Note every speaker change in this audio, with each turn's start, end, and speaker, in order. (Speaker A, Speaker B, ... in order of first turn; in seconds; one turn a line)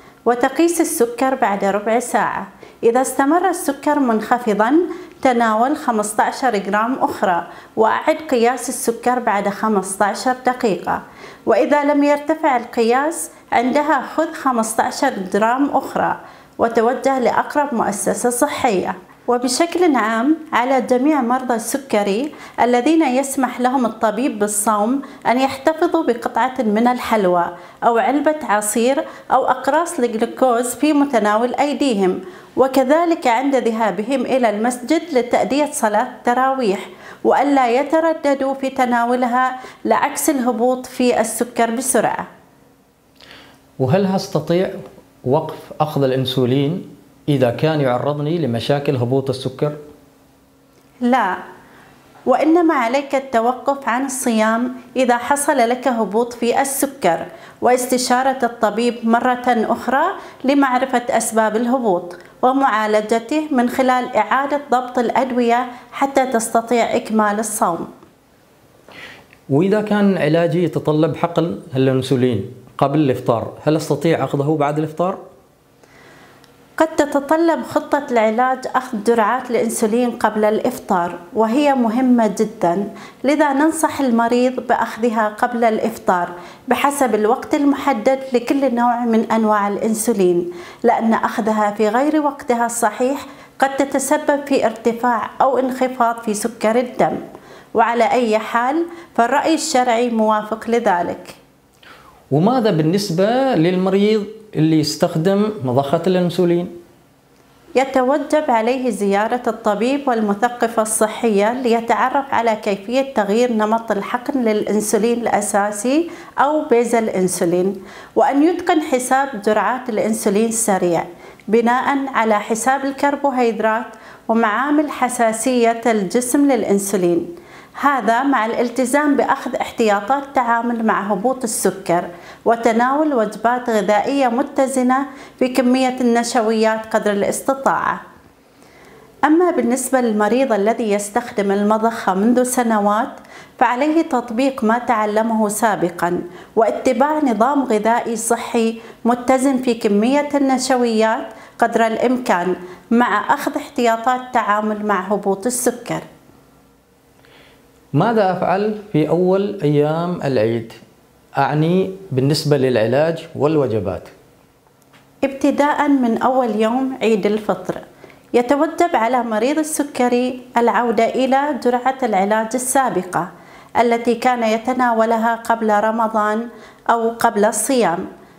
Speaker A: 0.3-42.2
Speaker B: 43.8-49.8
Speaker A: 51.0-51.3
Speaker A: 52.3-67.9
Speaker B: 69.5-75.2
Speaker A: 76.8-97.2
Speaker A: 97.8-101.3
Speaker B: 102.3-106.7
Speaker A: 107.8-127.3
Speaker A: 127.8-138.0
Speaker A: 139.3-156.0
Speaker B: 157.9-160.8
Speaker B: 161.4-164.1
Speaker A: 165.2-167.8
Speaker A: 168.3-173.3
Speaker A: 173.8-178.0